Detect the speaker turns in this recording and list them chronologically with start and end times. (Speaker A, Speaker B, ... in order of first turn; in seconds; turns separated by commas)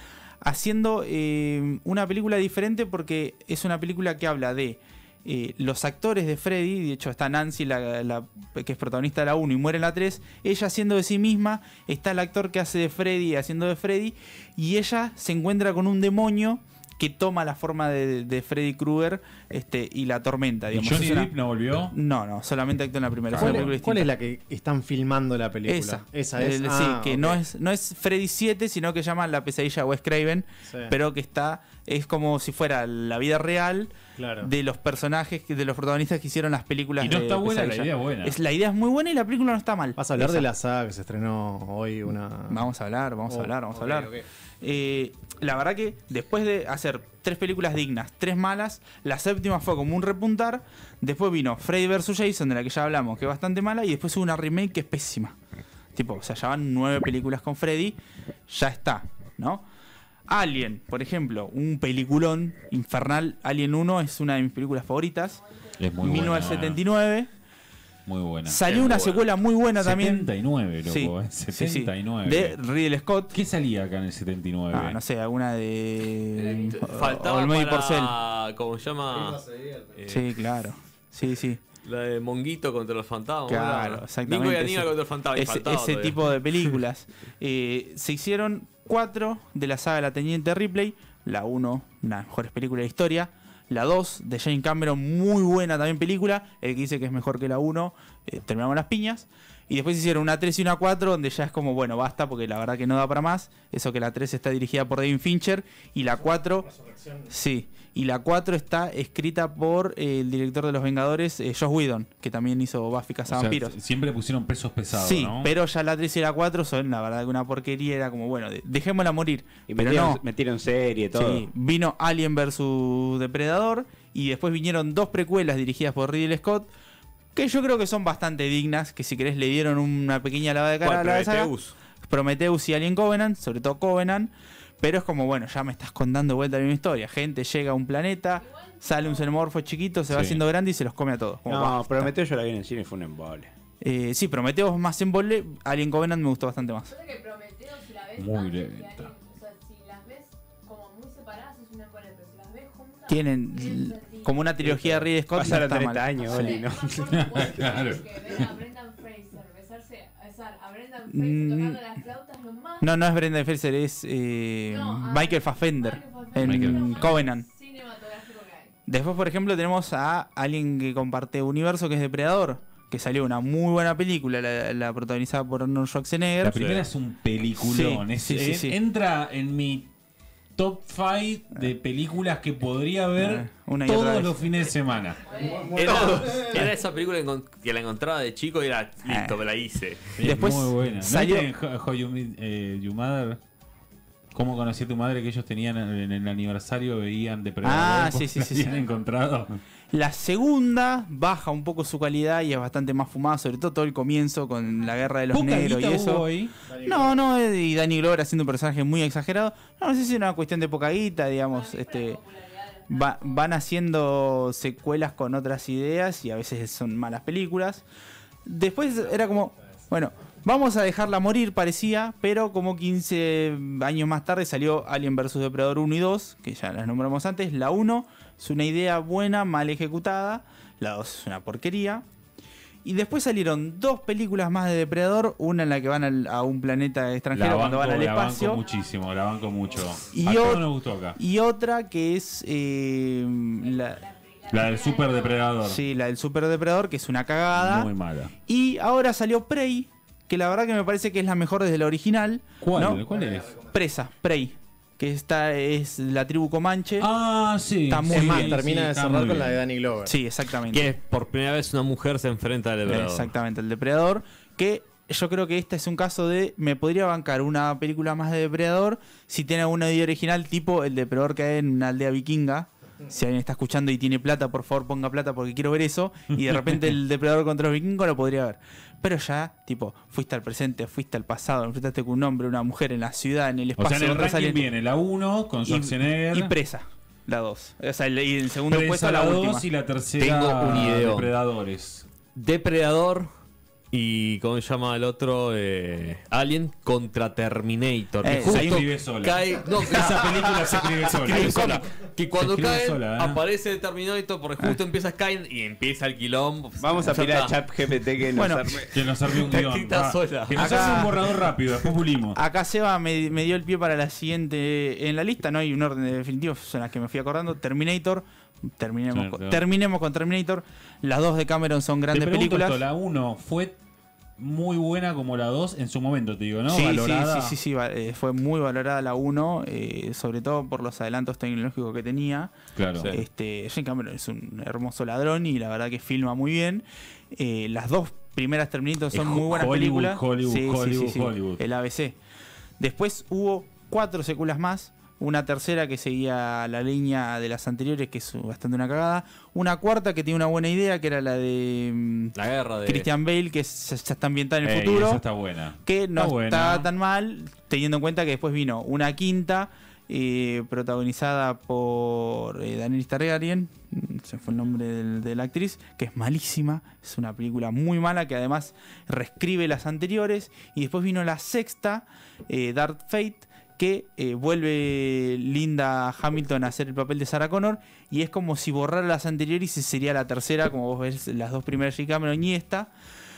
Speaker A: 0.4-21.3, Speaker B: 20.7-21.9, Speaker A: 21.9-24.1, Speaker B: 23.3-23.7, Speaker C: 23.4-27.4, Speaker A: 25.7-40.5, Speaker C: 30.6-30.9, Speaker C: 34.2-34.5, Speaker B: 37.0-38.4, Speaker C: 40.0-42.7, Speaker A: 42.5-55.3, Speaker C: 43.3-44.2, Speaker A: 55.9-59.6, Speaker A: 60.3-65.4, Speaker D: 65.4-66.3, Speaker B: 65.8-66.8, Speaker A: 66.0-67.3, Speaker B: 68.0-68.7, Speaker A: 68.5-70.3, Speaker E: 68.7-69.2, Speaker B: 69.8-72.6, Speaker A: 70.8-73.3, Speaker B: 73.3-75.0, Speaker A: 74.7-78.1, Speaker E: 76.4-79.4, Speaker D: 76.5-76.8, Speaker C: 79.0-80.0, Speaker E: 80.0-80.3, Speaker A: 80.1-81.6, Speaker E: 81.8-86.2, Speaker A: 83.5-106.7, Speaker C: 106.7-107.3, Speaker A: 107.3-113.8, Speaker B: 113.3-115.5, Speaker A: 114.9-120.2, Speaker F: 119.7-121.4, Speaker A: 121.1-126.7, Speaker A: 127.3-131.5, Speaker E: 130.8-131.7, Speaker A: 132.0-142.1, Speaker D: 138.4-139.3, Speaker B: 140.1-140.4, Speaker F: 141.5-143.5, Speaker A: 143.8-146.9, Speaker D: 146.9-154.3, Speaker B: 148.2-149.1, Speaker A: 153.1-156.6, Speaker F: 154.6-157.8, Speaker D: 156.2-162.9, Speaker B: 157.1-158.4, Speaker A: 161.1-161.8, Speaker A: 162.8-167.5, Speaker D: 164.7-168.7, Speaker B: 166.4-167.2, Speaker A: 168.9-176.6, Speaker B: 176.4-179.9, Speaker E: 176.5-176.8, Speaker A: 177.6-178.8, Speaker B: 180.6-185.2, Speaker A: 183.2-184.4, Speaker D: 185.2-185.7, Speaker C: 185.3-186.6, Speaker E: 185.7-190.2, Speaker A: 189.1-189.3, Speaker B: 190.2-193.4, Speaker A: 190.2-191.5, Speaker B: 194.3-199.6, Speaker A: 197.6-198.8, Speaker A: 199.9-206.2, Speaker B: 205.3-206.5, Speaker C: 206.6-207.2, Speaker A: 206.8-212.2, Speaker D: 211.5-213.5, Speaker A: 212.9-217.8, Speaker A: 218.4-232.0, Speaker A: 232.8-238.6, Speaker B: 237.3-241.2, Speaker D: 238.4-239.8, Speaker A: 240.1-244.0, Speaker D: 243.6-245.5, Speaker B: 244.5-245.8, Speaker A: 245.6-247.9, Speaker B: 247.5-248.3, Speaker A: 248.4-253.1, Speaker B: 252.6-253.5, Speaker C: 253.1-253.8, Speaker A: 253.6-257.1, Speaker B: 257.0-259.6, Speaker A: 257.9-258.6, Speaker C: 258.1-260.1, Speaker A: 260.1-260.9, Speaker E: 260.7-263.3, Speaker A: 262.9-284.7, Speaker B: 276.5-276.8, Speaker B: 283.8-286.5, Speaker A: 285.6-289.7, Speaker B: 288.7-292.1, Speaker E: 290.2-291.3, Speaker E: 292.3-293.3, Speaker E: 293.9-307.6, Speaker A: 298.2-298.9, Speaker B: 298.3-303.4, Speaker A: 301.2-301.8, Speaker F: 306.8-309.1, Speaker A: 308.3-308.7, Speaker B: 308.9-312.4, Speaker E: 309.3-311.3, Speaker A: 310.6-311.1, Speaker A: 312.3-322.8, Speaker B: 319.1-319.6, Speaker B: 322.1-323.8, Speaker B: 324.4-327.6, Speaker A: 326.7-342.1, Speaker B: 332.7-333.1, Speaker E: 333.0-333.2, Speaker B: 339.1-341.6, Speaker A: 342.8-355.2, Speaker E: 352.3-353.1, Speaker B: 354.6-356.9, Speaker A: 355.8-382.9